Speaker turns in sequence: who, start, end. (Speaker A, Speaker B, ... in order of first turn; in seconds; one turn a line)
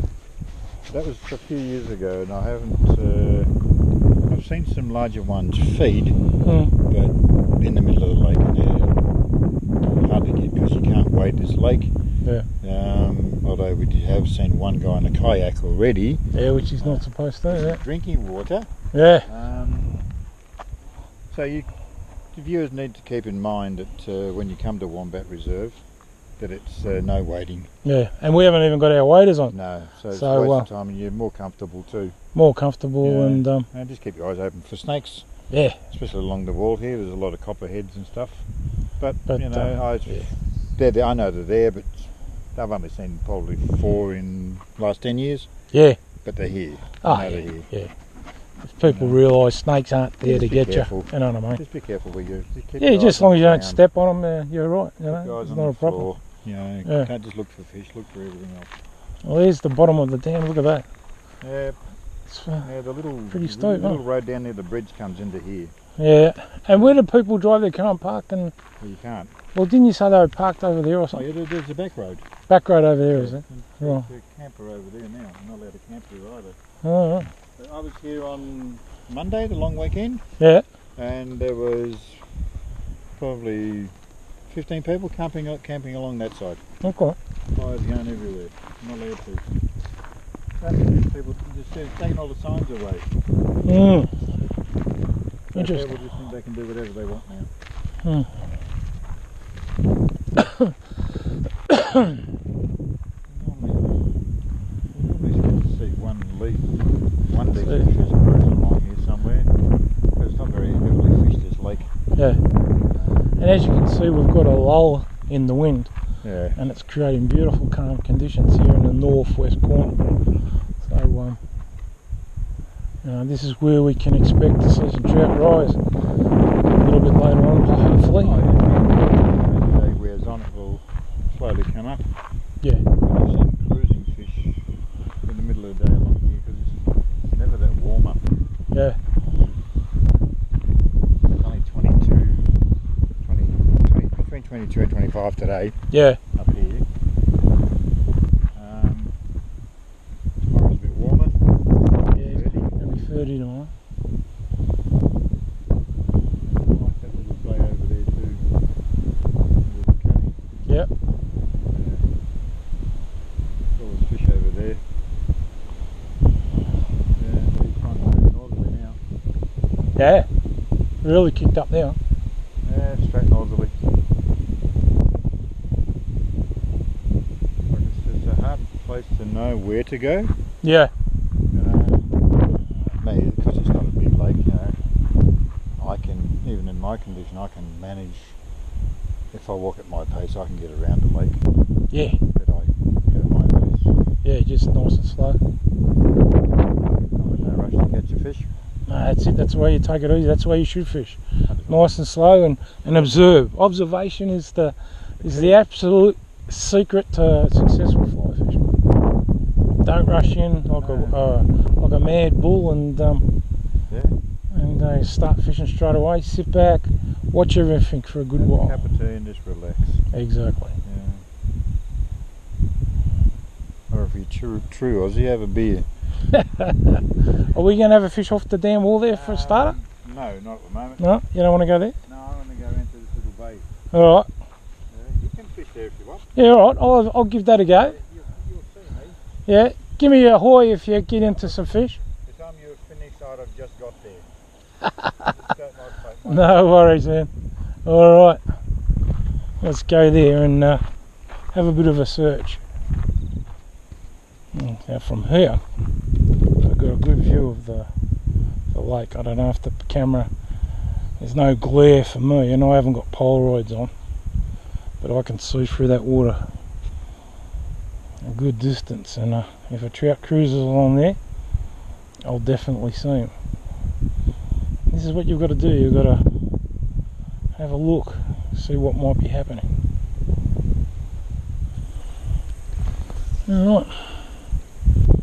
Speaker A: 0.9-3.5
Speaker A: 4.3-6.2
Speaker B: 6.4-6.7
Speaker A: 6.8-9.0
Speaker A: 9.9-11.9
Speaker B: 12.2-12.5
Speaker A: 12.6-16.2
Speaker B: 16.3-17.8
Speaker A: 16.8-18.7
Speaker B: 18.9-19.3
Speaker A: 19.2-19.9
Speaker A: 21.3-21.7
Speaker A: 22.3-25.8
Speaker A: 26.4-27.7
Speaker B: 27.8-29.5
Speaker A: 29.5-32.2
Speaker B: 30.1-30.7
Speaker B: 32.3-33.7
Speaker A: 33.0-35.3
Speaker B: 35.5-35.8
Speaker A: 35.9-38.5
Speaker A: 39.0-45.5
Speaker B: 39.3-40.3
Speaker B: 45.7-46.0
Speaker A: 46.2-47.7
Speaker B: 47.0-47.9
Speaker B: 48.6-51.6
Speaker A: 48.8-49.2
Speaker A: 50.2-53.8
Speaker B: 52.8-56.1
Speaker A: 55.1-58.7
Speaker B: 59.2-60.9
Speaker A: 61.4-61.8
Speaker B: 62.3-62.7
Speaker A: 62.6-65.7
Speaker B: 63.3-64.0
Speaker B: 66.0-68.5
Speaker A: 66.7-67.0
Speaker A: 68.8-69.3
Speaker B: 69.5-71.2
Speaker A: 71.1-72.2
Speaker B: 72.5-74.0
Speaker A: 73.1-76.6
Speaker B: 76.8-77.3
Speaker A: 77.5-80.2
Speaker B: 80.4-80.7
Speaker A: 81.0-82.3
Speaker A: 83.2-83.9
Speaker A: 84.5-86.6
Speaker B: 86.8-87.2
Speaker A: 87.5-89.5
Speaker A: 90.6-93.1
Speaker B: 93.6-94.1
Speaker A: 95.5-97.5
Speaker B: 95.5-95.9
Speaker B: 98.0-98.3
Speaker B: 100.4-100.7
Speaker B: 101.7-102.2
Speaker A: 103.3-104.0
Speaker A: 104.9-109.5
Speaker A: 110.1-111.9
Speaker B: 112.2-112.4
Speaker A: 112.8-113.3
Speaker B: 113.4-115.9
Speaker A: 116.2-116.6
Speaker B: 116.5-120.0
Speaker B: 120.8-121.4
Speaker B: 123.0-125.8
Speaker B: 126.8-128.4
Speaker A: 128.0-132.1
Speaker A: 133.0-134.6
Speaker A: 135.2-138.4
Speaker B: 138.7-139.0
Speaker A: 141.3-142.5
Speaker A: 143.2-146.8
Speaker B: 145.9-146.2
Speaker A: 148.5-149.1
Speaker A: 150.4-151.4
Speaker B: 152.1-153.7
Speaker A: 152.2-152.7
Speaker A: 156.4-158.4
Speaker A: 159.7-160.3
Speaker A: 161.7-162.1
Speaker A: 163.7-164.8
Speaker A: 167.1-169.0
Speaker B: 169.9-170.3
Speaker B: 171.0-172.0
Speaker A: 172.6-173.7
Speaker A: 177.7-180.3
Speaker B: 180.6-180.9
Speaker A: 181.5-182.2
Speaker A: 182.8-184.8
Speaker A: 185.8-188.4
Speaker A: 189.3-191.4
Speaker B: 191.9-192.2
Speaker A: 192.3-193.9
Speaker B: 194.2-195.4
Speaker A: 196.8-198.5
Speaker B: 198.9-208.6
Speaker A: 201.4-201.9
Speaker A: 205.2-205.6
Speaker B: 209.8-213.2
Speaker A: 210.8-211.2
Speaker A: 213.9-214.2
Speaker B: 214.5-218.8
Speaker A: 218.3-220.1
Speaker B: 220.1-220.7
Speaker A: 220.8-221.2
Speaker A: 223.9-225.9
Speaker B: 226.3-229.8
Speaker A: 229.1-231.1
Speaker B: 231.0-231.9
Speaker A: 232.0-233.7
Speaker B: 233.9-234.3
Speaker A: 234.9-236.3
Speaker B: 236.3-238.0
Speaker A: 237.7-239.2
Speaker B: 239.5-242.0
Speaker A: 242.2-244.3
Speaker B: 245.0-245.3
Speaker A: 245.2-246.6
Speaker B: 246.2-247.3
Speaker B: 247.8-248.4
Speaker B: 249.6-250.8
Speaker B: 251.5-252.6
Speaker B: 254.5-255.6
Speaker B: 256.6-257.9
Speaker B: 258.7-260.3
Speaker B: 261.2-263.9
Speaker B: 265.0-266.4
Speaker B: 268.2-271.2
Speaker B: 272.2-273.3
Speaker B: 274.9-276.3
Speaker B: 277.6-279.7
Speaker B: 283.4-284.3